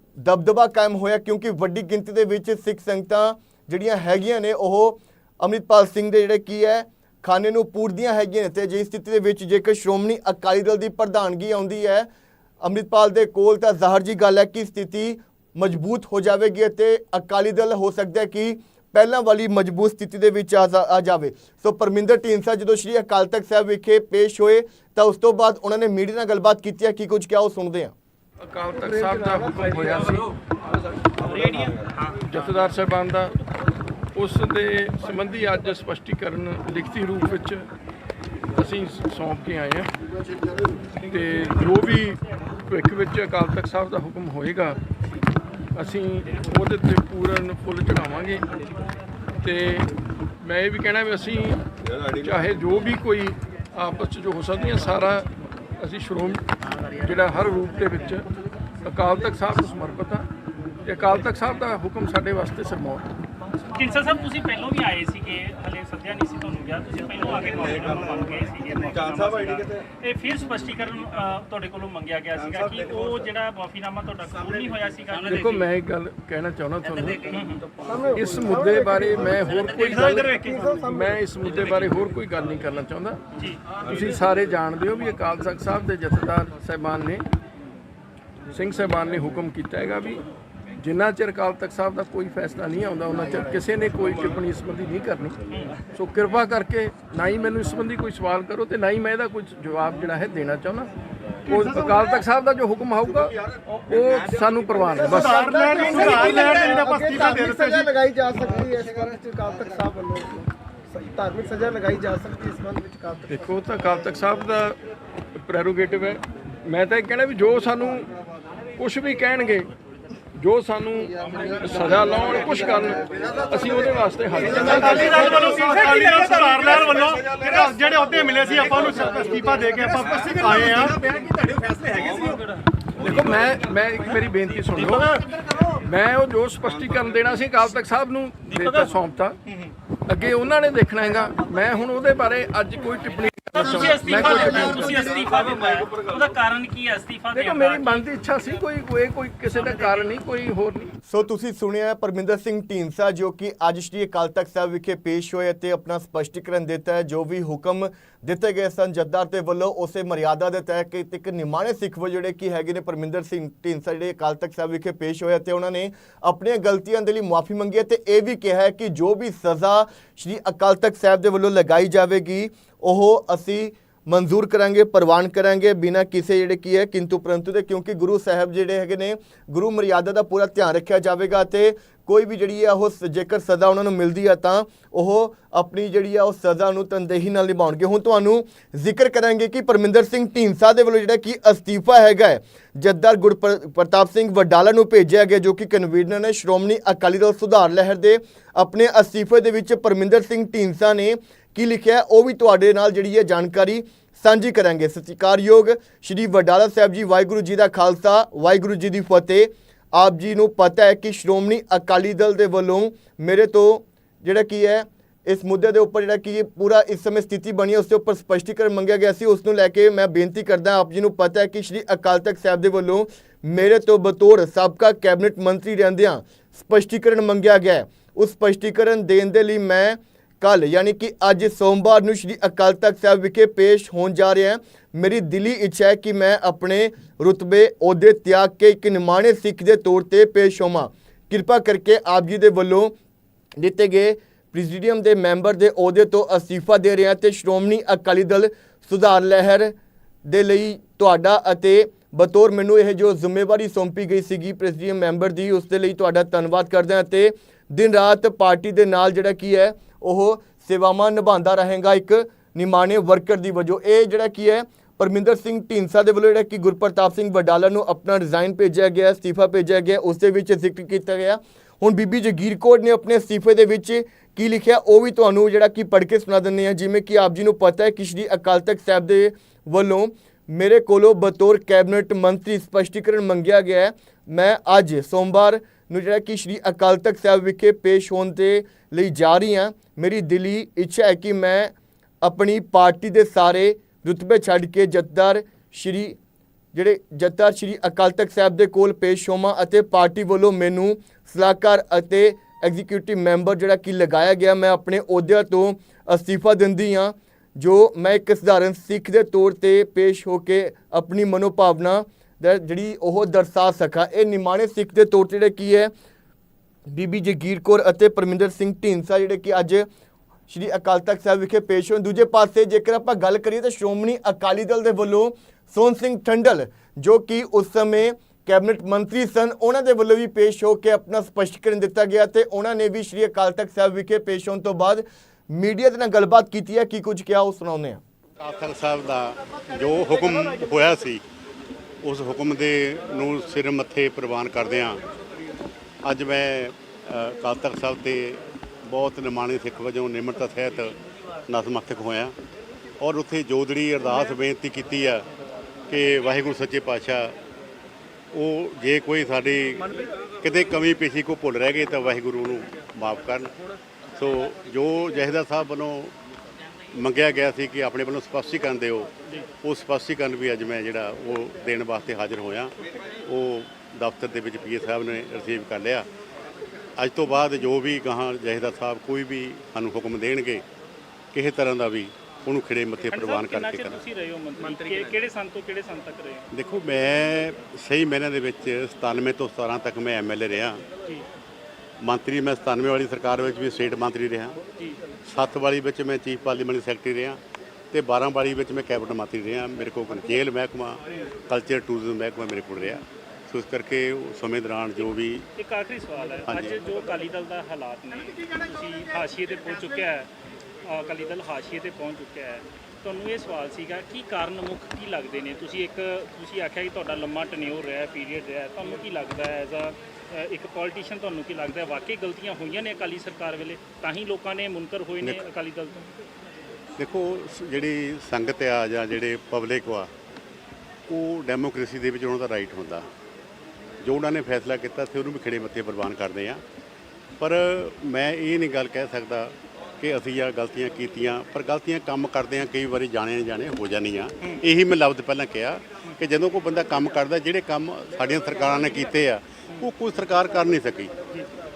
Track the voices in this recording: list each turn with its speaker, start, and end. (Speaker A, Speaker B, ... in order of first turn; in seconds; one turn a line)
Speaker A: 0.2-12.1
Speaker A: 12.6-27.9
Speaker B: 28.4-30.3
Speaker C: 28.8-29.6
Speaker D: 31.2-32.2
Speaker B: 32.2-33.4
Speaker B: 34.1-37.6
Speaker B: 38.5-39.9
Speaker B: 41.0-44.8
Speaker B: 45.8-48.5
Speaker B: 49.4-49.9
Speaker B: 50.4-51.6
Speaker B: 52.1-55.3
Speaker B: 55.8-58.2
Speaker B: 58.8-60.3
Speaker B: 60.8-63.0
Speaker D: 63.7-75.7
Speaker B: 75.3-77.5
Speaker D: 77.3-77.6
Speaker C: 77.8-79.4
Speaker B: 78.1-83.2
Speaker D: 79.8-80.5
Speaker C: 80.1-81.0
Speaker B: 83.8-87.2
Speaker B: 88.5-90.2
Speaker B: 90.8-95.4
Speaker D: 95.5-95.7
Speaker B: 95.9-100.9
Speaker B: 101.5-103.3
Speaker E: 101.5-102.1
Speaker B: 103.9-105.5
Speaker C: 105.0-113.3
Speaker E: 105.1-107.9
Speaker B: 113.3-114.8
Speaker B: 115.3-118.1
Speaker B: 118.8-119.7
Speaker B: 120.3-125.5
Speaker E: 124.7-131.1
Speaker D: 124.9-126.3
Speaker D: 131.8-132.6
Speaker B: 133.0-135.1
Speaker B: 135.8-139.4
Speaker D: 138.5-138.9
Speaker B: 140.1-145.2
Speaker D: 143.5-148.0
Speaker B: 147.3-150.9
Speaker A: 151.1-242.9
Speaker A: 243.6-249.7
Speaker A: 250.3-296.2
Speaker A: 296.7-315.9
Speaker A: 316.9-319.9
Speaker A: 320.5-338.0
Speaker F: 338.4-341.2
Speaker F: 342.0-345.0
Speaker F: 346.0-352.3
Speaker F: 353.0-355.3
Speaker F: 355.9-357.4
Speaker F: 358.3-363.5
Speaker F: 364.1-366.1
Speaker F: 366.9-372.7
Speaker F: 373.2-376.1
Speaker F: 377.0-380.6
Speaker F: 381.3-384.0
Speaker D: 383.1-386.4
Speaker F: 386.5-390.8
Speaker F: 392.0-394.6
Speaker F: 395.2-397.4
Speaker F: 397.9-405.4
Speaker D: 405.6-410.3
Speaker F: 406.5-406.8
Speaker D: 410.9-426.1
Speaker F: 427.0-430.1
Speaker F: 431.1-433.1
Speaker F: 434.0-436.6
Speaker F: 437.4-451.1